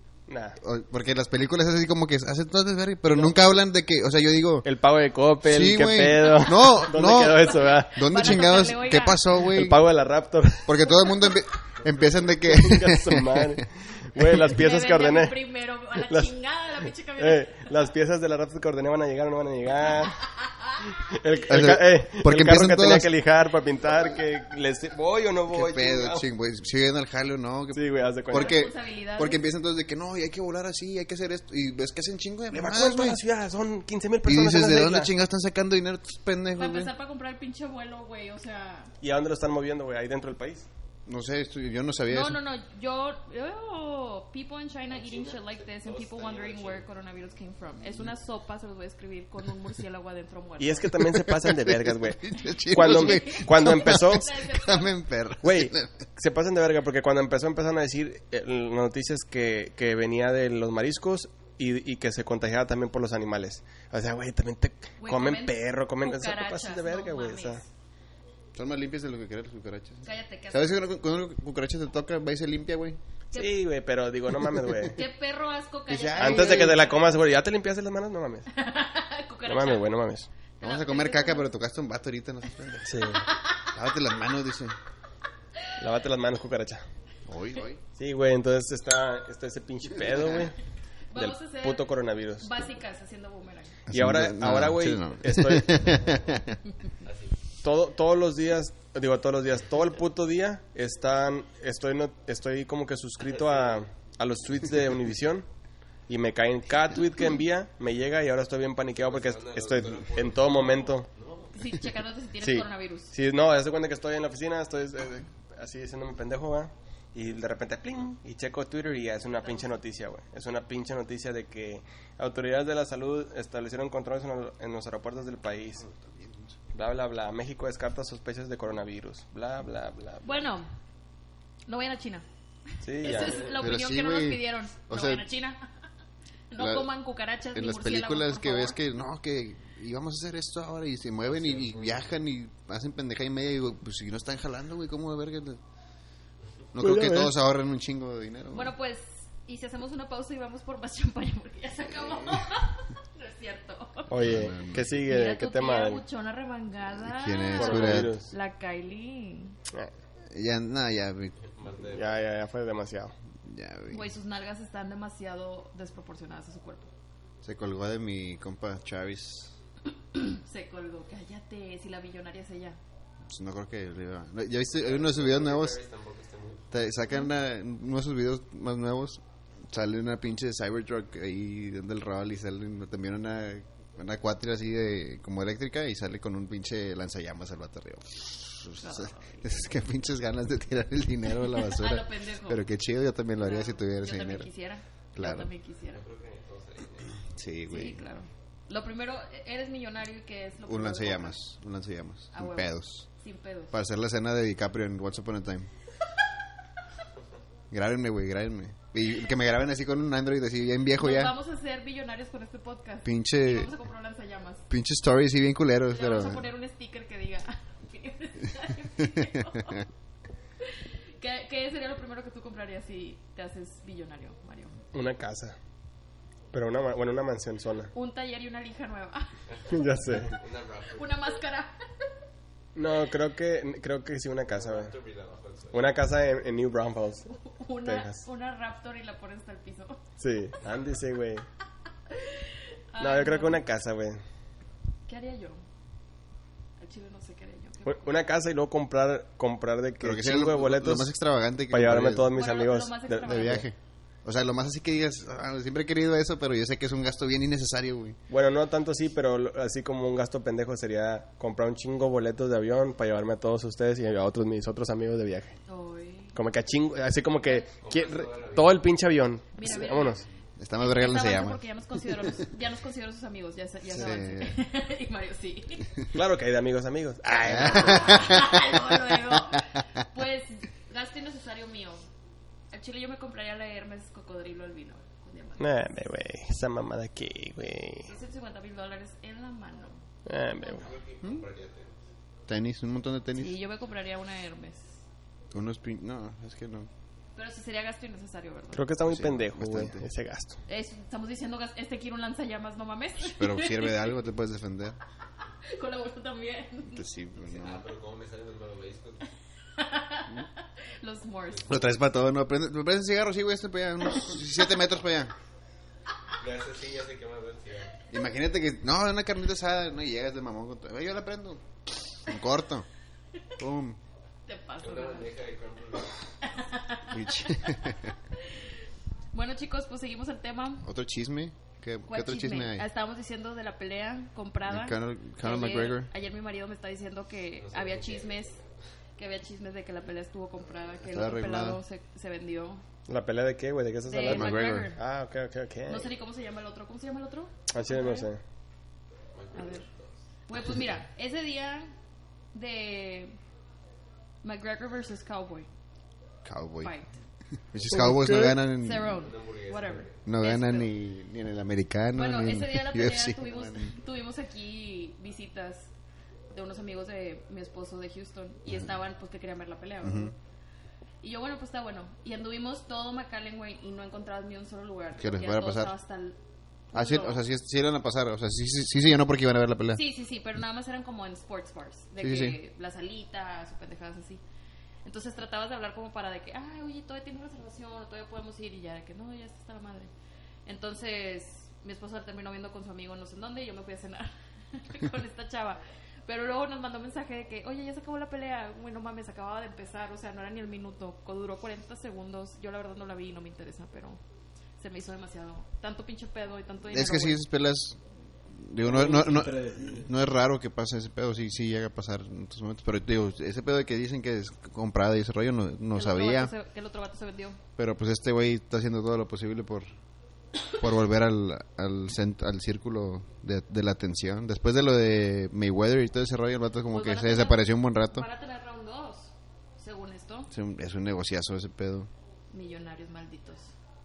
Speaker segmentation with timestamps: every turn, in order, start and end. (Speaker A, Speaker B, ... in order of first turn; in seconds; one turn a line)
Speaker A: 0.3-0.6
Speaker B: 0.6-4.7
Speaker A: 3.1-3.5
Speaker A: 4.6-8.5
Speaker B: 5.4-9.8
Speaker C: 8.0-9.2
Speaker A: 9.4-10.8
Speaker B: 10.7-13.6
Speaker A: 12.4-15.4
Speaker C: 14.5-17.7
Speaker A: 17.2-20.2
Speaker C: 20.4-20.8
Speaker A: 20.9-26.3
Speaker B: 21.5-23.1
Speaker B: 25.5-33.2
Speaker A: 27.7-28.6
Speaker C: 28.3-29.4
Speaker A: 32.5-35.1
Speaker B: 34.2-36.9
Speaker C: 36.6-38.9
Speaker A: 39.0-40.7
Speaker B: 41.0-42.4
Speaker C: 42.1-50.9
Speaker D: 44.9-46.9
Speaker A: 50.6-54.3
Speaker B: 51.2-55.9
Speaker C: 52.7-54.9
Speaker A: 55.4-67.6
Speaker C: 65.0-67.6
Speaker B: 68.5-73.0
Speaker C: 70.0-70.8
Speaker C: 73.3-73.6
Speaker A: 73.3-75.0
Speaker C: 74.9-77.2
Speaker B: 75.9-76.7
Speaker A: 76.2-78.5
Speaker C: 78.5-79.9
Speaker A: 79.5-80.3
Speaker C: 80.6-81.5
Speaker B: 80.6-84.7
Speaker A: 82.9-83.3
Speaker A: 85.8-86.8
Speaker B: 87.3-87.8
Speaker A: 88.0-90.5
Speaker B: 90.0-90.5
Speaker C: 91.1-93.8
Speaker A: 91.1-92.5
Speaker B: 93.9-96.6
Speaker A: 93.9-96.0
Speaker D: 95.9-96.3
Speaker D: 97.0-97.4
Speaker A: 97.6-105.5
Speaker D: 103.3-103.8
Speaker A: 106.1-111.1
Speaker D: 108.9-111.7
Speaker C: 111.5-113.1
Speaker A: 112.4-125.8
Speaker C: 119.4-119.8
Speaker B: 125.8-126.5
Speaker A: 126.7-130.4
Speaker C: 130.2-130.7
Speaker C: 131.7-132.2
Speaker A: 132.8-133.5
Speaker C: 133.0-135.6
Speaker B: 133.6-135.2
Speaker C: 136.5-138.8
Speaker B: 136.6-136.9
Speaker B: 137.5-145.6
Speaker D: 141.2-142.1
Speaker B: 146.7-148.7
Speaker A: 146.8-147.3
Speaker C: 148.5-154.1
Speaker B: 151.9-152.4
Speaker A: 154.1-156.0
Speaker B: 154.2-154.9
Speaker C: 155.1-159.6
Speaker B: 156.9-158.2
Speaker A: 157.6-158.3
Speaker B: 160.3-161.4
Speaker D: 161.4-162.2
Speaker A: 161.9-163.1
Speaker B: 163.4-164.1
Speaker C: 163.9-166.9
Speaker B: 167.4-169.5
Speaker C: 170.1-172.8
Speaker B: 173.3-175.8
Speaker D: 174.8-176.7
Speaker B: 176.7-194.5
Speaker C: 188.8-189.6
Speaker C: 191.4-192.6
Speaker C: 193.4-196.0
Speaker B: 195.1-195.5
Speaker D: 195.9-197.2
Speaker B: 197.3-198.0
Speaker C: 197.7-201.4
Speaker B: 200.7-203.1
Speaker C: 202.3-203.7
Speaker B: 203.7-205.7
Speaker B: 207.7-211.3
Speaker C: 211.0-214.7
Speaker B: 213.0-213.7
Speaker B: 214.7-216.4
Speaker C: 215.9-219.8
Speaker B: 219.1-219.7
Speaker C: 221.2-224.7
Speaker A: 224.9-225.6
Speaker A: 226.5-227.9
Speaker C: 227.9-229.3
Speaker D: 229.5-231.2
Speaker A: 229.7-230.3
Speaker C: 230.9-231.8
Speaker A: 232.7-234.9
Speaker D: 234.5-235.9
Speaker A: 235.7-237.3
Speaker C: 237.4-240.0
Speaker A: 237.8-238.2
Speaker A: 240.2-241.4
Speaker C: 242.2-243.6
Speaker A: 243.0-244.2
Speaker C: 245.1-245.6
Speaker C: 246.8-248.2
Speaker A: 247.8-251.1
Speaker B: 250.0-252.4
Speaker A: 251.7-253.6
Speaker C: 252.3-253.6
Speaker B: 253.2-258.2
Speaker A: 258.3-265.6
Speaker C: 265.7-266.4
Speaker A: 266.3-270.2
Speaker D: 267.8-268.9
Speaker C: 269.6-270.2
Speaker B: 270.6-271.6
Speaker C: 270.8-275.9
Speaker B: 273.8-274.6
Speaker A: 276.1-278.4
Speaker B: 277.4-279.6
Speaker C: 277.6-282.0
Speaker C: 282.7-286.0
Speaker A: 285.6-288.1
Speaker C: 288.0-290.0
Speaker A: 290.2-290.9
Speaker C: 290.6-290.8
Speaker D: 290.7-292.0
Speaker B: 291.2-291.4
Speaker B: 292.5-293.6
Speaker C: 293.4-295.0
Speaker B: 295.5-296.9
Speaker C: 297.3-298.9
Speaker A: 298.7-300.6
Speaker B: 299.0-300.0
Speaker C: 300.7-304.1
Speaker B: 303.2-305.0
Speaker C: 305.7-307.0
Speaker B: 306.9-307.9
Speaker D: 307.4-309.3
Speaker C: 309.8-310.4
Speaker C: 311.0-311.8
Speaker D: 311.5-311.9
Speaker B: 311.7-315.3
Speaker D: 316.4-318.0
Speaker B: 318.1-322.9
Speaker B: 323.6-324.0
Speaker C: 324.5-325.3
Speaker D: 324.8-326.2
Speaker C: 326.4-328.5
Speaker B: 327.1-328.1
Speaker C: 329.3-330.9
Speaker B: 330.8-332.9
Speaker C: 332.1-338.6
Speaker B: 334.6-336.1
Speaker D: 337.6-338.7
Speaker C: 339.2-342.8
Speaker B: 341.1-341.8
Speaker A: 343.1-346.1
Speaker C: 344.1-345.0
Speaker B: 344.2-344.9
Speaker C: 345.9-348.3
Speaker A: 347.7-348.4
Speaker D: 349.3-350.2
Speaker C: 349.5-349.9
Speaker C: 350.5-351.9
Speaker C: 352.5-353.4
Speaker C: 354.4-355.7
Speaker B: 356.4-356.9
Speaker C: 356.8-357.1
Speaker B: 357.7-359.2
Speaker A: 357.9-358.5
Speaker C: 358.8-360.9
Speaker D: 359.1-360.2
Speaker B: 360.2-363.9
Speaker C: 362.1-365.9
Speaker C: 366.5-370.3
Speaker B: 370.0-370.3
Speaker C: 371.2-376.4
Speaker B: 375.2-375.9
Speaker C: 376.9-377.4
Speaker B: 376.9-380.0
Speaker C: 379.9-384.4
Speaker B: 382.2-382.6
Speaker C: 385.0-390.1
Speaker C: 390.6-404.2
Speaker C: 404.8-407.4
Speaker B: 406.9-408.0
Speaker B: 408.5-416.5
Speaker A: 408.8-410.1
Speaker C: 415.9-417.6
Speaker B: 417.8-419.9
Speaker B: 420.8-428.3
Speaker C: 426.9-430.5
Speaker B: 430.5-432.1
Speaker C: 432.5-433.7